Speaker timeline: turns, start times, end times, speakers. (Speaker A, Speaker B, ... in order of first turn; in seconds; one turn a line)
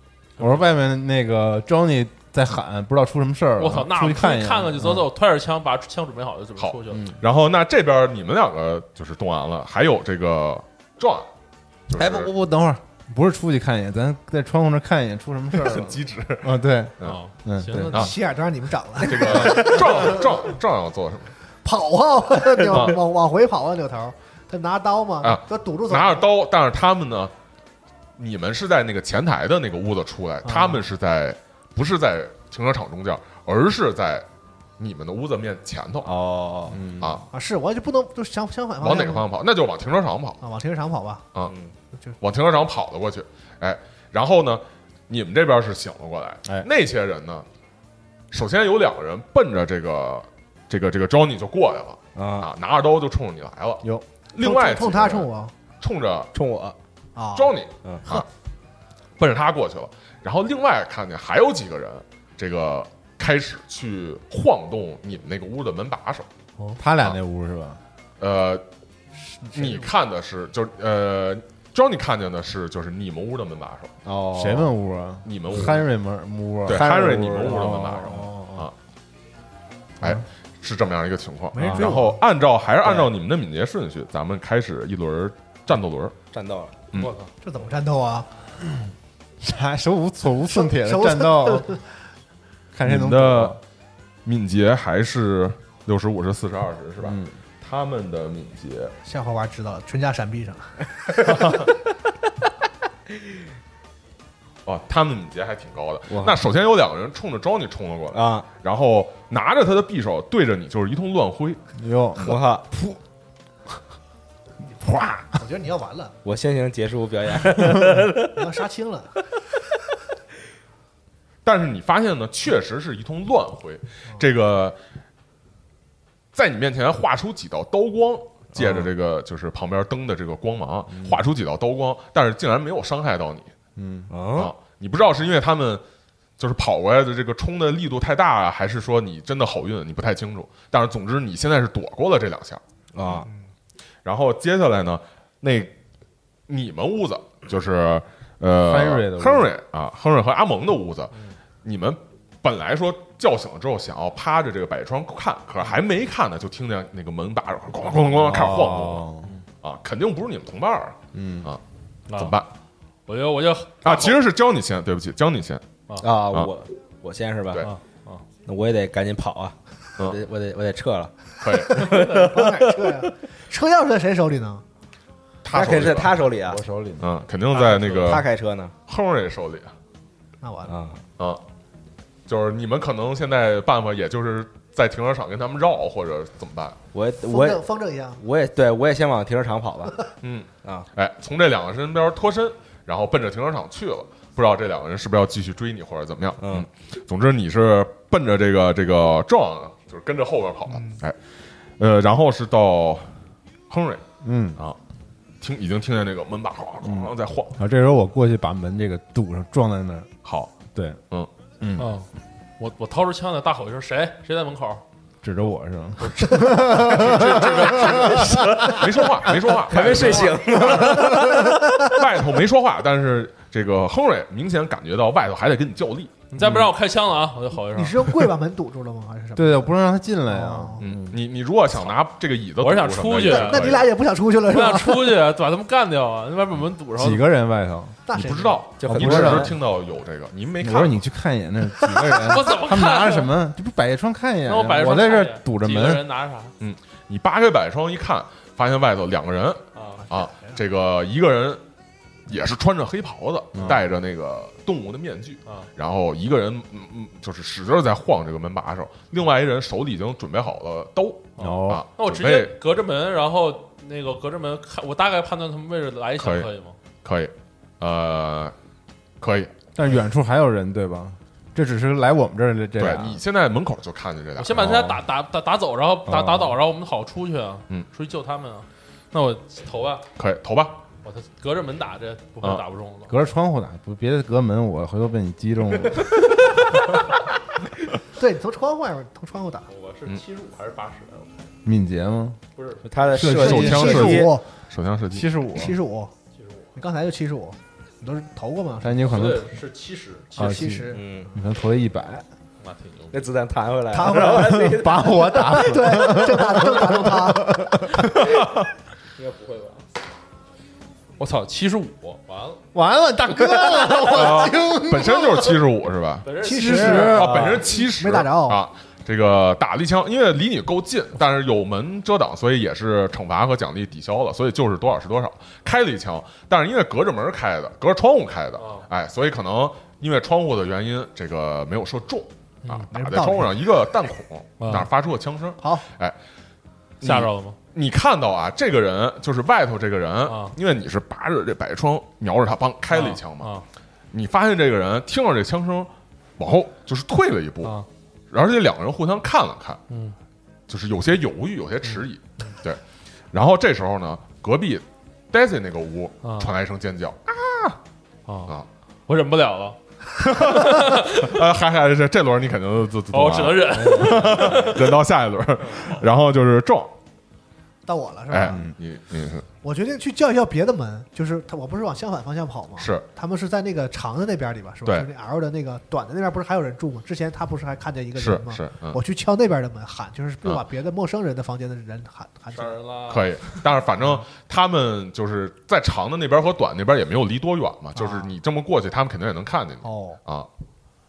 Speaker A: 0.4-0.7
Speaker B: 0.4-5.1
Speaker A: 3.6-7.1
Speaker C: 6.6-11.3
Speaker C: 11.9-12.3
Speaker B: 11.9-18.1
Speaker C: 15.6-17.2
Speaker A: 17.0-18.1
Speaker C: 17.8-18.1
Speaker D: 17.9-20.1
Speaker C: 19.0-21.3
Speaker D: 21.6-26.3
Speaker C: 22.7-23.0
Speaker C: 25.2-27.3
Speaker C: 28.2-34.2
Speaker D: 30.4-30.8
Speaker C: 34.8-36.1
Speaker E: 36.0-36.8
Speaker B: 36.7-37.2
Speaker C: 37.0-37.2
Speaker D: 37.3-39.3
Speaker C: 38.8-40.4
Speaker D: 40.4-41.3
Speaker E: 41.4-41.7
Speaker C: 42.2-47.5
Speaker C: 48.3-55.3
Speaker E: 52.1-52.5
Speaker D: 54.4-55.5
Speaker C: 55.8-56.3
Speaker E: 56.3-56.8
Speaker D: 57.1-57.5
Speaker C: 57.3-58.2
Speaker C: 59.2-66.3
Speaker B: 66.8-67.8
Speaker C: 68.2-68.6
Speaker D: 69.3-69.9
Speaker C: 69.5-73.9
Speaker E: 74.0-74.7
Speaker B: 74.3-78.2
Speaker C: 75.2-75.9
Speaker C: 76.7-78.7
Speaker E: 76.7-78.6
Speaker C: 80.0-86.1
Speaker D: 81.5-82.2
Speaker E: 81.6-82.0
Speaker E: 82.8-83.1
Speaker E: 86.3-86.8
Speaker A: 86.9-87.3
Speaker D: 87.4-88.3
Speaker B: 89.4-91.7
Speaker D: 90.5-91.8
Speaker B: 92.7-93.6
Speaker C: 92.8-93.6
Speaker C: 94.2-98.9
Speaker B: 97.0-97.3
Speaker D: 99.0-100.8
Speaker C: 101.3-101.7
Speaker C: 104.6-111.6
Speaker E: 106.1-106.4
Speaker E: 108.1-108.5
Speaker B: 111.8-113.0
Speaker E: 112.2-112.7
Speaker B: 114.8-115.3
Speaker D: 115.3-116.2
Speaker E: 116.2-118.3
Speaker D: 118.3-119.1
Speaker C: 121.4-124.8
Speaker C: 126.3-133.5
Speaker E: 128.6-128.9
Speaker B: 133.8-134.1
Speaker E: 134.1-134.5
Speaker C: 134.3-135.8
Speaker C: 136.4-142.6
Speaker E: 142.9-143.3
Speaker C: 144.0-145.7
Speaker C: 146.5-151.1
Speaker B: 148.6-149.5
Speaker C: 151.6-159.1
Speaker B: 158.1-159.3
Speaker C: 159.6-161.6
Speaker B: 161.1-161.5
Speaker A: 162.1-162.4
Speaker C: 162.1-162.5
Speaker A: 163.1-164.2
Speaker C: 163.8-165.6
Speaker E: 166.0-167.7
Speaker A: 167.6-168.2
Speaker E: 168.4-173.1
Speaker C: 171.4-171.9
Speaker D: 171.8-174.6
Speaker C: 175.4-176.2
Speaker E: 175.5-176.6
Speaker B: 176.4-177.1
Speaker C: 177.0-178.3
Speaker A: 177.6-178.2
Speaker E: 177.6-178.7
Speaker C: 178.9-179.7
Speaker D: 180.4-180.8
Speaker E: 180.7-181.0
Speaker C: 182.3-186.8
Speaker E: 186.9-187.6
Speaker D: 187.2-188.2
Speaker E: 188.2-190.1
Speaker C: 190.2-201.2
Speaker E: 190.6-190.9
Speaker E: 196.4-196.7
Speaker D: 200.7-201.0
Speaker C: 201.8-203.2
Speaker C: 203.7-204.0
Speaker B: 204.2-204.6
Speaker C: 205.4-207.6
Speaker B: 206.8-210.1
Speaker C: 210.2-210.6
Speaker B: 210.7-211.0
Speaker B: 211.6-211.9
Speaker A: 211.8-212.1
Speaker A: 212.6-214.8
Speaker B: 215.2-218.7
Speaker A: 216.0-217.0
Speaker C: 216.8-220.9
Speaker E: 218.2-219.1
Speaker E: 219.6-221.9
Speaker B: 220.7-221.4
Speaker C: 221.8-226.2
Speaker A: 226.3-228.3
Speaker B: 226.4-226.7
Speaker D: 227.7-229.7
Speaker B: 229.3-231.1
Speaker D: 230.3-230.8
Speaker C: 230.8-233.9
Speaker A: 232.6-233.9
Speaker D: 233.2-235.2
Speaker A: 234.4-237.2
Speaker B: 237.0-238.0
Speaker D: 238.1-238.6
Speaker C: 238.1-241.0
Speaker E: 238.8-239.6
Speaker B: 238.8-239.5
Speaker B: 240.6-246.1
Speaker A: 242.1-243.4
Speaker A: 244.4-246.5
Speaker C: 246.6-251.6
Speaker A: 249.7-250.0
Speaker D: 250.0-250.6
Speaker C: 252.3-262.6
Speaker B: 253.5-253.8
Speaker A: 261.4-266.8
Speaker B: 261.4-261.8
Speaker C: 266.2-266.5
Speaker C: 267.0-268.5
Speaker C: 269.2-269.5
Speaker B: 269.8-273.2
Speaker C: 272.8-274.9
Speaker A: 274.4-280.1
Speaker B: 274.6-275.0
Speaker B: 276.1-276.5
Speaker C: 280.2-280.8
Speaker A: 281.0-283.1
Speaker B: 283.1-286.2
Speaker D: 288.1-289.7
Speaker A: 289.7-291.5
Speaker B: 291.6-292.4
Speaker A: 292.5-293.1
Speaker E: 292.8-294.3
Speaker B: 293.1-294.2
Speaker C: 293.2-295.3
Speaker D: 293.3-294.4
Speaker B: 295.1-295.8
Speaker D: 295.6-296.1
Speaker A: 296.3-296.7
Speaker D: 296.8-299.2
Speaker B: 298.8-299.5
Speaker A: 299.1-300.7
Speaker D: 300.4-301.0
Speaker B: 300.4-302.2
Speaker E: 300.9-301.3
Speaker A: 302.6-303.3
Speaker E: 303.1-305.6
Speaker D: 303.9-307.7
Speaker B: 304.0-308.1
Speaker C: 308.1-308.7
Speaker A: 309.2-309.8
Speaker A: 311.2-312.6
Speaker B: 312.7-315.6
Speaker E: 313.7-314.0
Speaker C: 314.1-316.3
Speaker A: 316.2-317.5
Speaker D: 316.4-318.6
Speaker B: 316.5-317.5
Speaker C: 317.0-336.1
Speaker A: 328.6-328.9
Speaker D: 332.9-333.6
Speaker A: 334.6-334.9
Speaker D: 335.6-335.8
Speaker C: 337.0-343.5
Speaker A: 337.0-337.6
Speaker A: 340.2-340.6
Speaker A: 342.9-343.6
Speaker C: 344.1-349.8
Speaker A: 349.9-350.1
Speaker C: 350.7-352.8
Speaker A: 351.9-352.5
Speaker C: 353.3-357.7
Speaker A: 356.2-356.5
Speaker A: 358.3-358.5
Speaker A: 359.1-359.8
Speaker C: 360.2-366.9
Speaker A: 360.3-361.4
Speaker A: 363.1-364.9
Speaker E: 363.7-364.8
Speaker A: 365.6-366.0
Speaker D: 367.9-368.6
Speaker C: 368.3-369.4
Speaker B: 368.5-368.7
Speaker D: 369.6-382.8
Speaker C: 372.8-373.1
Speaker C: 378.1-379.0
Speaker A: 382.5-383.6
Speaker C: 383.1-390.5
Speaker D: 387.9-388.3
Speaker D: 389.8-390.2